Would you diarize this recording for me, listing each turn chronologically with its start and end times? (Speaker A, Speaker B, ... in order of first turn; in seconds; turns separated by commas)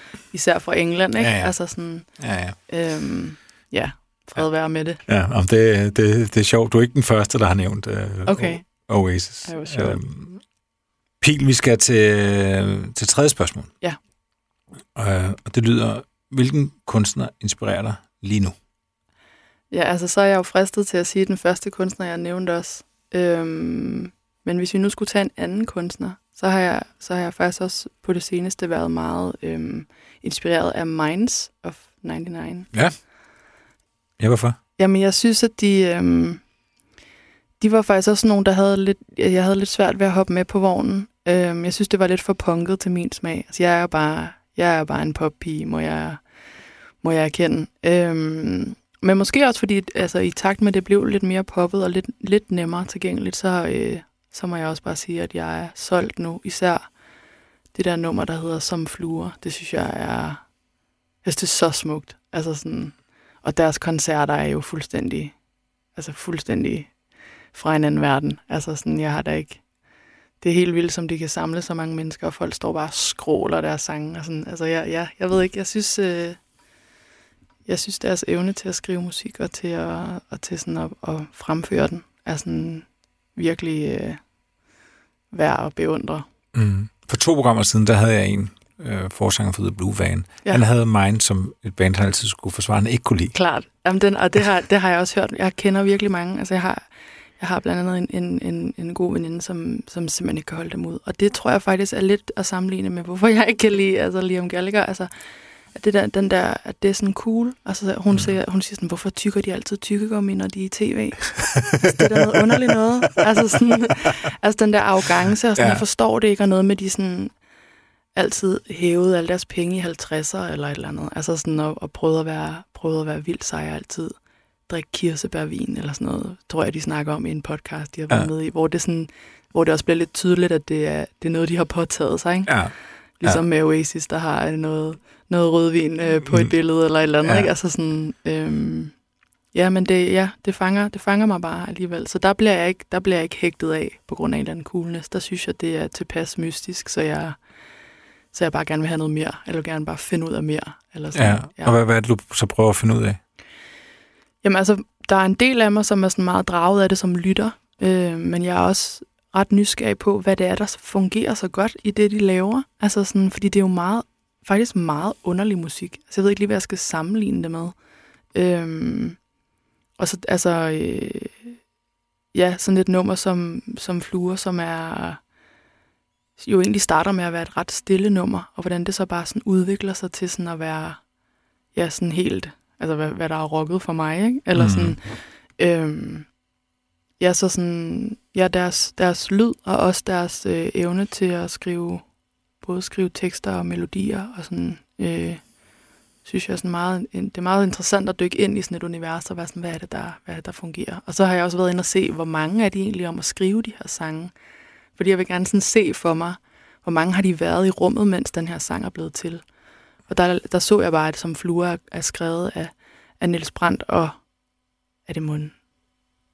Speaker A: 0.3-2.1, Speaker B: 1.2-2.6, Speaker A: 2.7-5.0, Speaker B: 5.1-10.4, Speaker A: 8.3-8.9, Speaker A: 9.4-10.0, Speaker B: 11.2-13.7, Speaker B: 14.9-18.6, Speaker A: 19.7-32.7, Speaker B: 34.2-34.6, Speaker A: 34.8-36.4, Speaker A: 37.6-46.2, Speaker A: 47.0-56.9, Speaker A: 57.7-60.4, Speaker A: 61.2-65.3, Speaker A: 66.0-66.9, Speaker A: 67.5-69.6, Speaker A: 70.4-76.4, Speaker A: 77.7-84.2, Speaker A: 85.3-86.3, Speaker B: 86.5-93.3, Speaker A: 93.3-96.9, Speaker A: 97.4-105.1, Speaker A: 105.7-117.3, Speaker B: 111.8-112.6, Speaker B: 115.6-115.8, Speaker A: 118.2-124.2, Speaker A: 124.7-132.6, Speaker B: 132.5-133.4, Speaker A: 133.2-138.9, Speaker B: 137.2-137.5, Speaker A: 139.5-147.4, Speaker A: 148.3-151.8, Speaker B: 151.1-153.2, Speaker A: 154.4-167.8, Speaker A: 168.3-169.2, Speaker A: 170.0-171.6, Speaker A: 172.3-175.2, Speaker A: 176.4-181.0, Speaker A: 181.7-185.0, Speaker B: 184.6-185.0, Speaker A: 185.6-186.3, Speaker A: 187.2-192.0, Speaker A: 192.6-195.4, Speaker A: 196.2-204.3, Speaker A: 205.0-209.4, Speaker A: 210.1-214.2, Speaker A: 215.1-215.6